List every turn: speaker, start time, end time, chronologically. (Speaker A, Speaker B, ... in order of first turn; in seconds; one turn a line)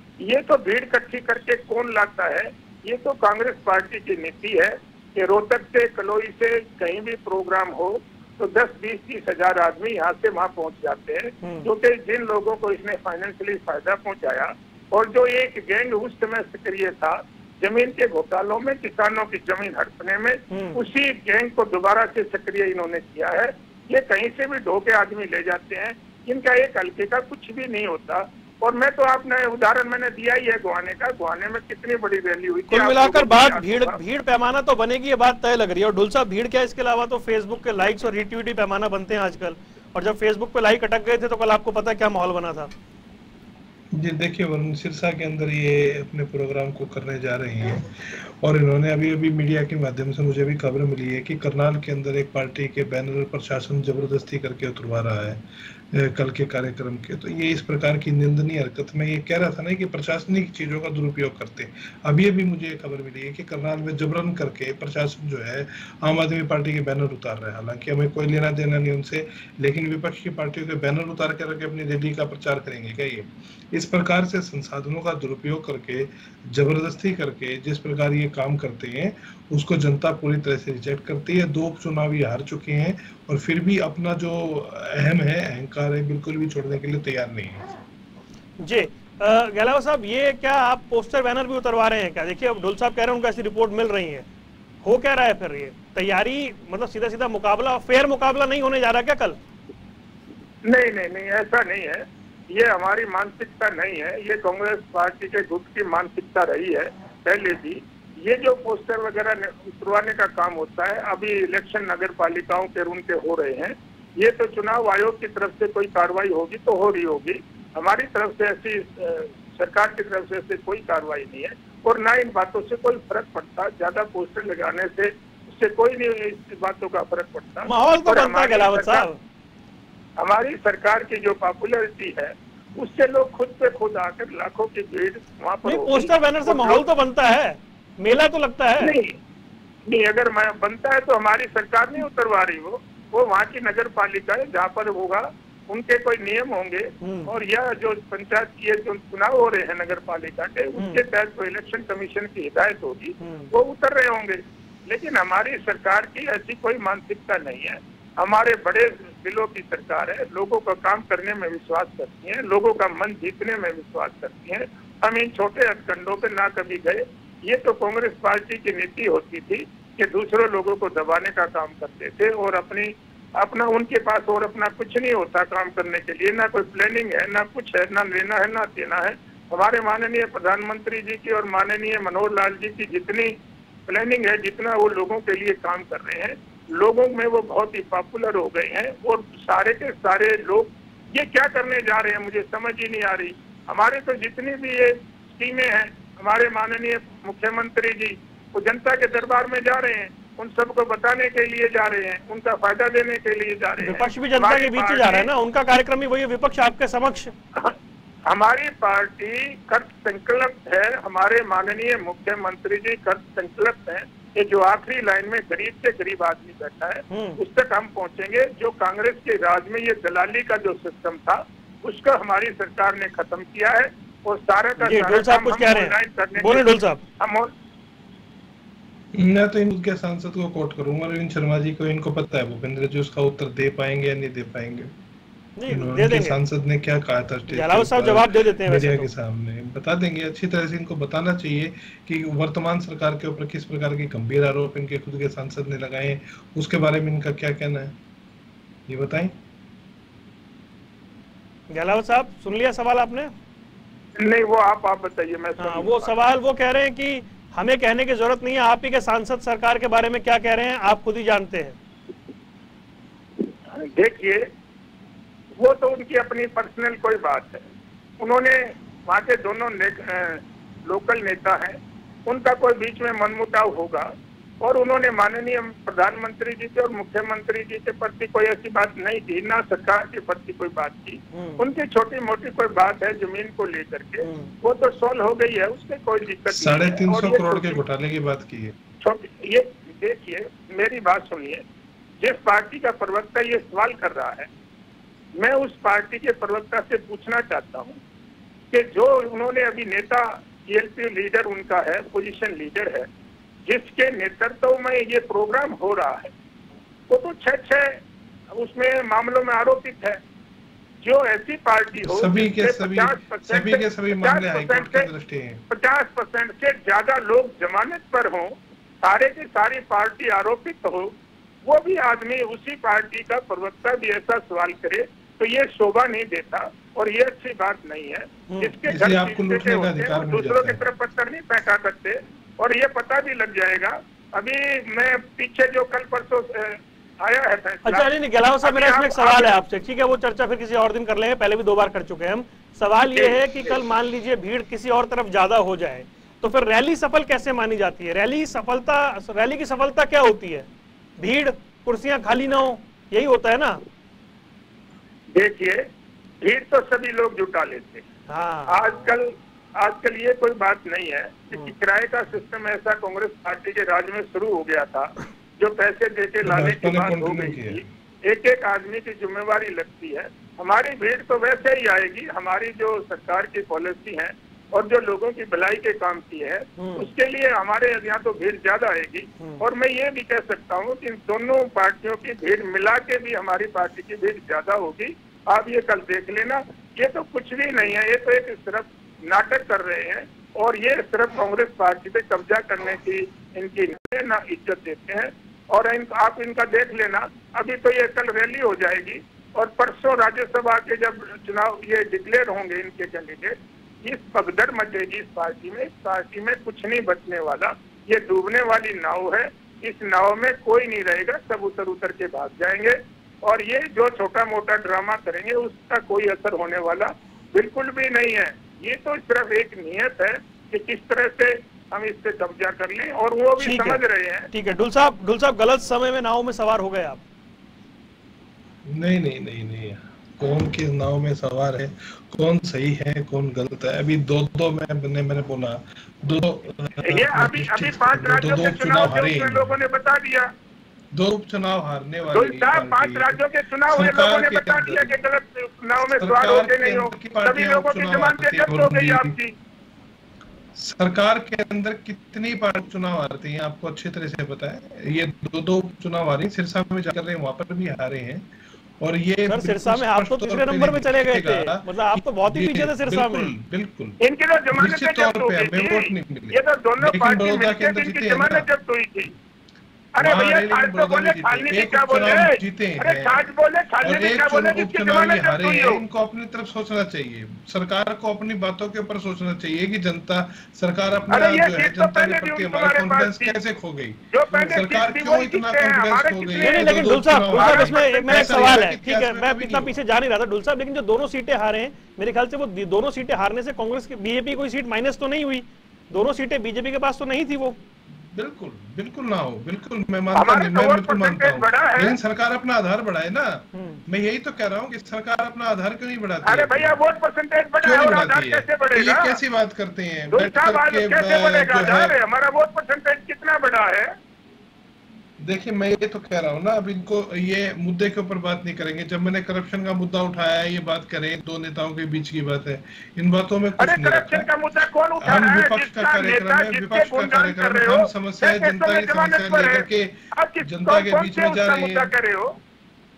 Speaker A: 0.2-34.0
Speaker B: 11.4-11.7
Speaker B: 20.5-20.8
Speaker B: 32.7-42.7
Speaker C: 43.9-87.7
Speaker B: 88.6-94.2
Speaker B: 94.8-99.4
Speaker A: 100.7-129.1
Speaker B: 127.6-129.2
Speaker A: 130.2-136.8
Speaker B: 135.6-138.9
Speaker A: 138.8-139.2
Speaker A: 139.9-183.3
Speaker B: 147.0-147.3
Speaker B: 150.8-151.0
Speaker B: 153.2-153.5
Speaker A: 183.9-205.3
Speaker B: 203.8-207.3
Speaker A: 208.3-227.5
Speaker B: 217.1-217.4
Speaker B: 224.8-227.0
Speaker C: 229.1-234.9
Speaker B: 235.6-236.4
Speaker C: 235.7-247.9
Speaker B: 237.5-239.1
Speaker C: 248.9-249.3
Speaker B: 251.7-253.3
Speaker A: 254.2-256.1
Speaker B: 255.6-261.8
Speaker A: 263.7-264.4
Speaker A: 265.6-267.6
Speaker A: 268.2-274.1
Speaker A: 274.6-287.8
Speaker B: 281.3-281.6
Speaker B: 284.2-284.5
Speaker C: 286.5-288.7
Speaker A: 289.0-291.6
Speaker A: 292.2-294.5
Speaker A: 295.4-298.0
Speaker A: 298.7-303.1
Speaker A: 303.6-306.3
Speaker A: 307.1-308.0
Speaker A: 308.5-310.2
Speaker A: 311.0-315.1
Speaker C: 312.0-315.6
Speaker A: 315.7-321.1
Speaker A: 321.6-338.1
Speaker B: 328.5-328.7
Speaker C: 328.9-330.9
Speaker B: 337.8-350.7
Speaker A: 338.6-339.6
Speaker A: 343.1-343.8
Speaker B: 351.2-353.8
Speaker A: 355.3-355.8
Speaker A: 356.4-358.1
Speaker B: 358.3-358.9
Speaker A: 358.7-424.5
Speaker C: 366.4-367.8
Speaker B: 376.8-377.1
Speaker B: 423.6-427.2
Speaker C: 428.9-439.7
Speaker A: 437.1-440.5
Speaker C: 441.1-443.4
Speaker A: 442.3-449.5
Speaker C: 443.9-445.2
Speaker C: 446.0-449.4
Speaker C: 450.8-458.5
Speaker C: 459.0-464.2
Speaker B: 459.5-463.5
Speaker A: 464.2-469.3
Speaker C: 464.7-468.7
Speaker A: 470.1-476.0
Speaker C: 470.2-473.5
Speaker C: 474.0-489.9
Speaker A: 481.3-483.6
Speaker A: 484.3-488.7
Speaker B: 486.6-497.8
Speaker C: 498.1-507.0
Speaker A: 500.3-502.1
Speaker B: 503.7-504.0
Speaker A: 506.4-509.3
Speaker C: 507.8-512.2
Speaker A: 510.3-514.1
Speaker C: 515.4-524.5
Speaker A: 523.8-529.8
Speaker C: 525.2-532.1
Speaker A: 530.4-532.5